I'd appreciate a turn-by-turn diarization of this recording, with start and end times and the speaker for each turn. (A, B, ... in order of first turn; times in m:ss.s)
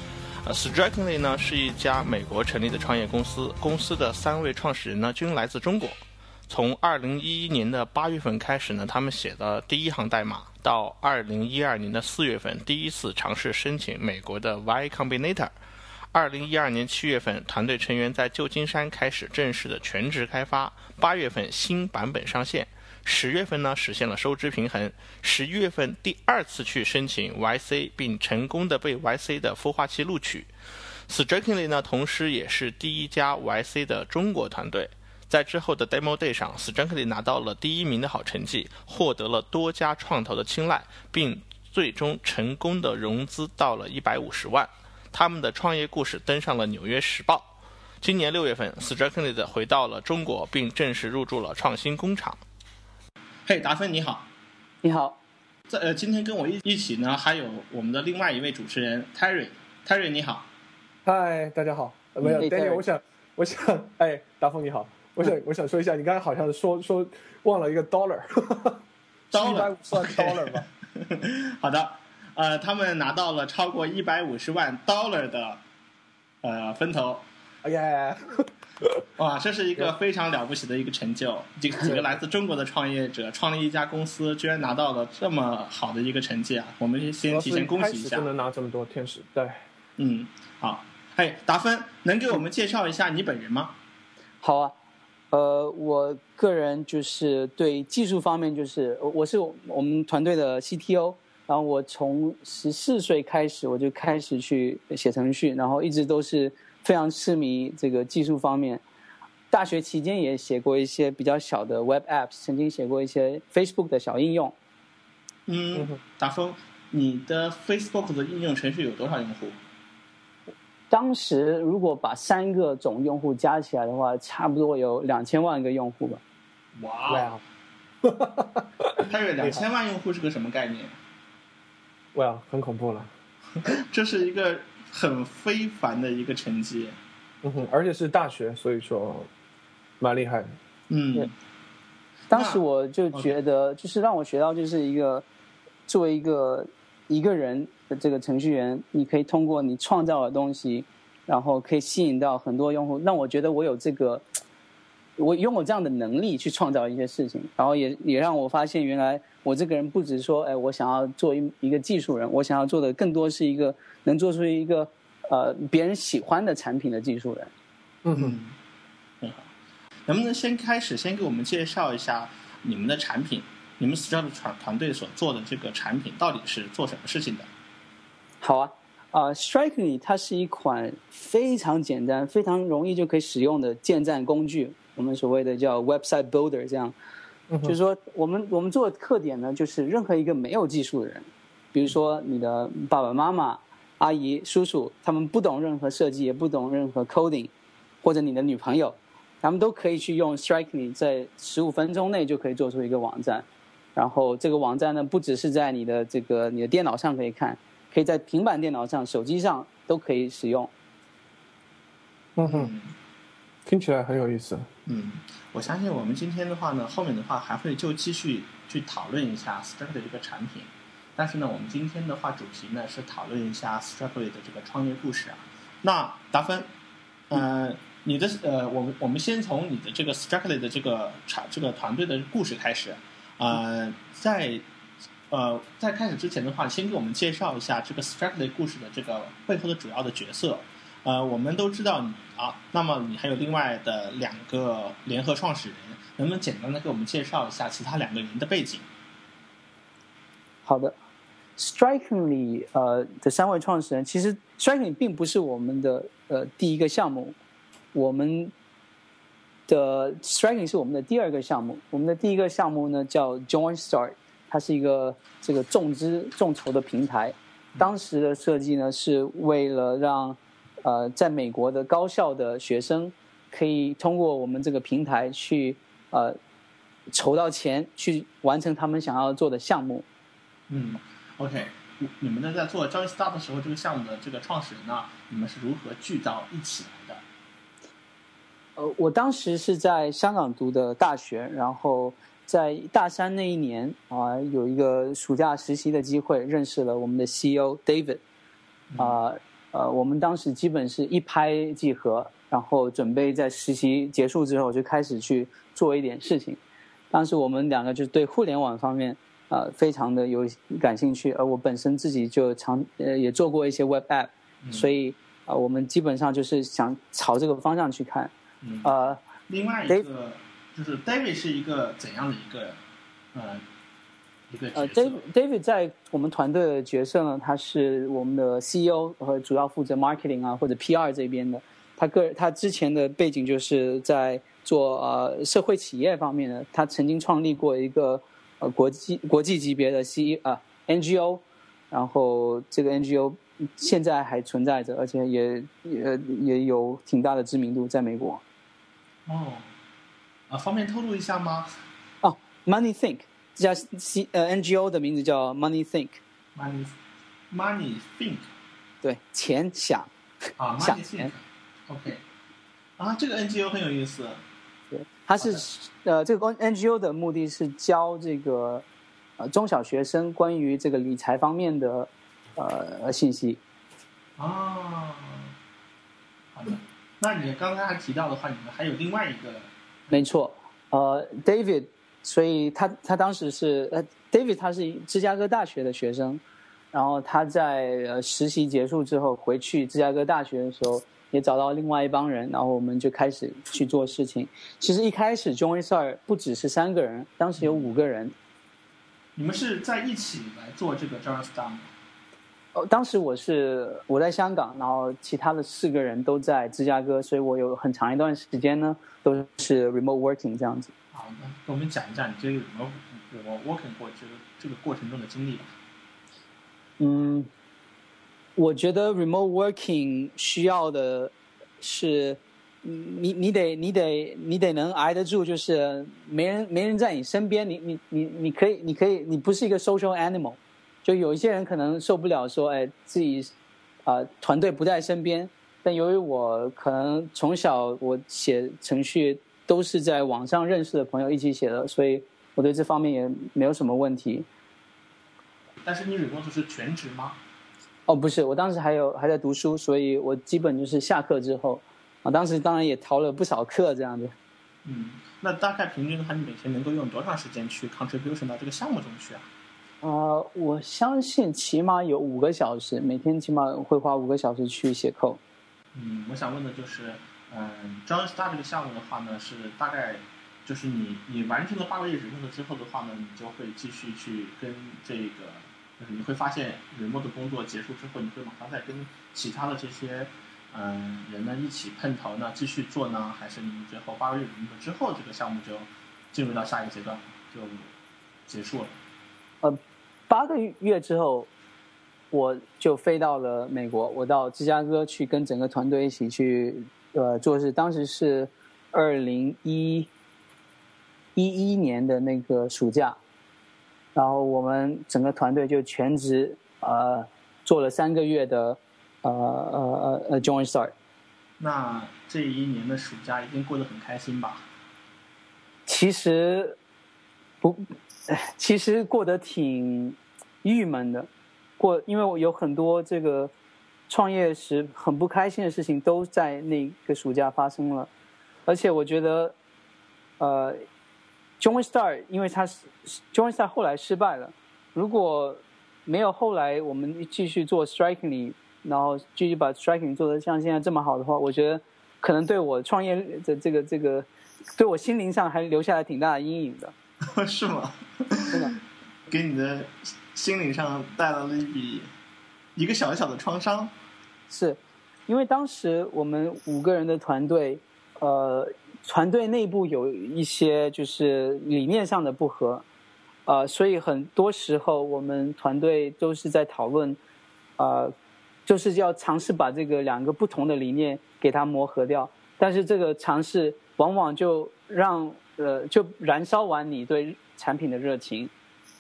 0:00.4-0:15.6 A
0:16.1-0:30.5 A
0:31.1-0:52.4 A
0:53.5-0:54.3 A
0:54.8-0:55.2 B
0:55.7-1:00.5 A
1:01.0-1:08.8 C
1:02.4-1:02.8 B
1:09.3-1:10.7 C
1:09.3-1:15.6 A
1:16.4-1:17.2 A
1:17.6-1:19.0 C
1:19.2-1:28.3 A
1:27.3-1:29.6 C
1:30.0-1:33.8 A
1:34.4-1:34.8 B
1:35.3-1:48.8 B
1:49.5-1:54.5 B
1:55.5-1:59.6 A
2:00.9-2:06.2 B
2:06.8-2:07.4 A
2:07.1-2:07.4 C
2:08.0-2:09.6 C
2:09.0-2:11.0 A
2:12.1-2:13.1 C
2:13.6-2:17.0 A
2:17.4-2:19.3 C
2:20.0-2:20.6 C
2:20.9-2:21.3 A
2:22.3-2:25.2 B
2:22.3-2:22.6 A
2:23.1-2:23.4 A
2:25.9-2:34.2 B
2:35.2-2:47.5 B
2:48.0-2:48.4 C
2:48.1-2:48.6 A
2:49.2-2:49.5 A
2:50.1-2:57.5 A
2:58.4-3:06.9 B
3:07.5-3:07.8 C
3:07.6-3:17.5 B
3:18.0-3:23.4 B
3:24.0-3:30.7 B
3:32.4-3:32.7 C
3:32.4-3:33.0 A
3:33.7-3:34.7 C
3:34.8-3:46.7 A
3:47.3-3:54.6 A
3:55.3-4:08.8 A
4:10.7-4:11.0 B
4:11.6-4:17.4 B
4:17.9-4:18.5 B
4:19.7-4:36.4 B
4:37.1-4:40.0 B
4:40.7-4:47.2 A
4:48.8-4:58.2 B
4:58.9-4:59.2 A
4:59.0-5:06.6 B
5:07.1-5:18.3 B
5:14.6-5:14.9 A
5:18.6-5:22.8 A
5:18.8-5:19.2 B
5:23.3-5:23.6 A
5:24.5-5:25.2 A
5:24.8-5:48.4 B
5:49.3-5:49.7 A
5:50.5-5:51.8 A
5:52.2-5:56.2 B
5:56.6-5:57.0 A
5:57.5-5:58.5 A
5:59.0-6:00.1 B
6:00.6-6:02.2 A
6:00.8-6:01.3 B
6:03.0-6:04.4 A
6:04.9-6:08.8 B
6:09.4-6:13.6 B
6:14.4-6:15.5 A
6:16.6-6:19.7 A
6:20.1-6:26.4 B
6:26.9-6:38.3 B
6:37.6-6:37.9 A
6:39.4-6:41.9 A
6:42.8-6:50.9 B
6:51.1-6:55.8 A
6:57.0-6:57.5 B
6:58.6-7:13.5 B
7:14.1-7:24.5 B
7:25.8-7:27.4 A
7:28.1-7:34.3 B
7:34.8-7:39.5 A
7:40.0-7:45.4 B
7:45.9-8:07.9 A
8:08.5-8:09.0 A
8:09.6-8:11.5 B
8:12.3-8:20.1 B
8:21.4-8:23.2 B
8:24.2-8:30.9 B
8:31.6-8:34.7 A
8:35.9-8:36.8 B
8:37.6-8:41.3 B
8:41.8-8:43.5 B
8:44.1-8:48.1 B
8:48.7-8:49.6 B
8:50.4-8:50.8 B
8:51.6-9:06.9 B
9:07.2-9:08.7 A
9:09.3-9:12.1 A
9:12.8-9:13.9 A
9:14.5-9:22.8 B
9:23.5-9:27.2 B
9:27.8-9:28.1 B
9:28.7-9:38.5 B